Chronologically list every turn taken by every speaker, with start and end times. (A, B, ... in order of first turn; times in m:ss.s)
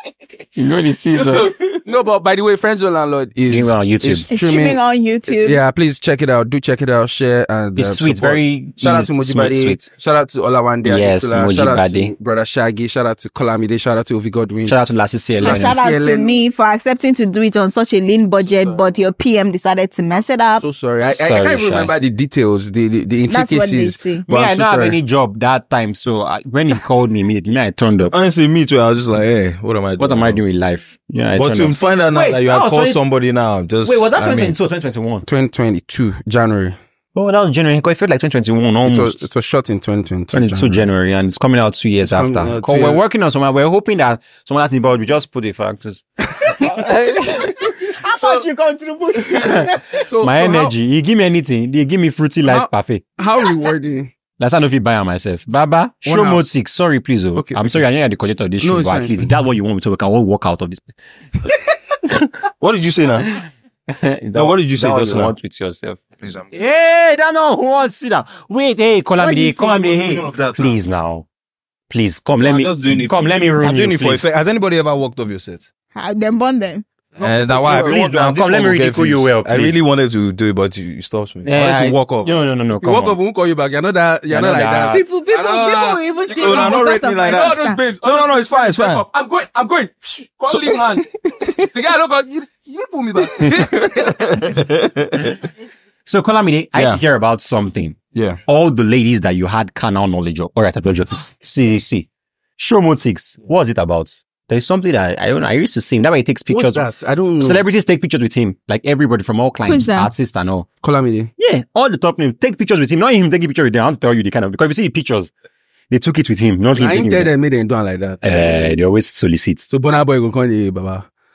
0:00.6-0:01.5 A
0:01.2-0:14.8 B
0:03.5-0:04.3 A
0:04.3-0:05.6 C
0:07.8-0:09.8 A
0:10.8-0:12.1 A
0:14.7-0:15.8 A
0:15.4-0:16.4 B
0:15.4-0:20.6 C
0:18.4-0:18.8 B
0:20.6-0:24.0 B
0:21.1-0:21.9 A
0:23.3-0:24.3 C
0:24.3-0:25.0 D
0:24.3-0:28.1 A
0:28.1-0:30.4 D
0:30.0-0:33.0 A
0:31.4-0:34.2 D
0:33.8-0:35.3 A
0:34.2-0:34.6 B
0:35.2-0:36.8 B
0:37.2-0:39.2 A
0:38.8-0:40.8 B
0:40.3-0:47.3 A
0:42.0-0:43.0 B
0:46.6-0:49.9 C
0:49.4-0:49.7 A
0:49.9-0:50.7 B
0:50.2-0:53.0 A
0:52.4-0:54.1 B
0:54.4-1:00.9 A
0:56.1-0:56.5 B
0:57.4-0:57.8 B
0:58.6-0:59.3 B
1:02.4-1:03.3 D
1:03.3-1:11.3 A
1:04.3-1:05.4 D
1:06.2-1:06.5 D
1:09.2-1:09.9 C
1:09.8-1:10.8 D
1:11.9-1:14.3 A
1:12.4-1:15.6 D
1:16.0-1:16.9 C
1:17.2-1:22.4 D
1:17.2-1:17.9 B
1:17.6-1:19.8 A
1:21.4-1:23.2 A
1:22.8-1:31.1 B
1:24.3-1:25.0 A
1:24.9-1:27.8 C
1:26.4-1:29.0 D
1:30.5-1:31.7 D
1:31.6-1:34.3 B
1:33.4-1:35.5 D
1:36.1-1:46.9 A
1:36.8-1:37.0 D
1:38.1-1:38.4 D
1:46.5-1:47.6 B
1:47.4-1:50.7 A
1:49.7-1:50.1 C
1:50.8-1:51.3 B
1:51.4-1:55.3 A
1:55.9-1:57.3 A
1:56.8-1:58.8 B
1:58.2-1:59.7 A
1:59.7-2:01.1 B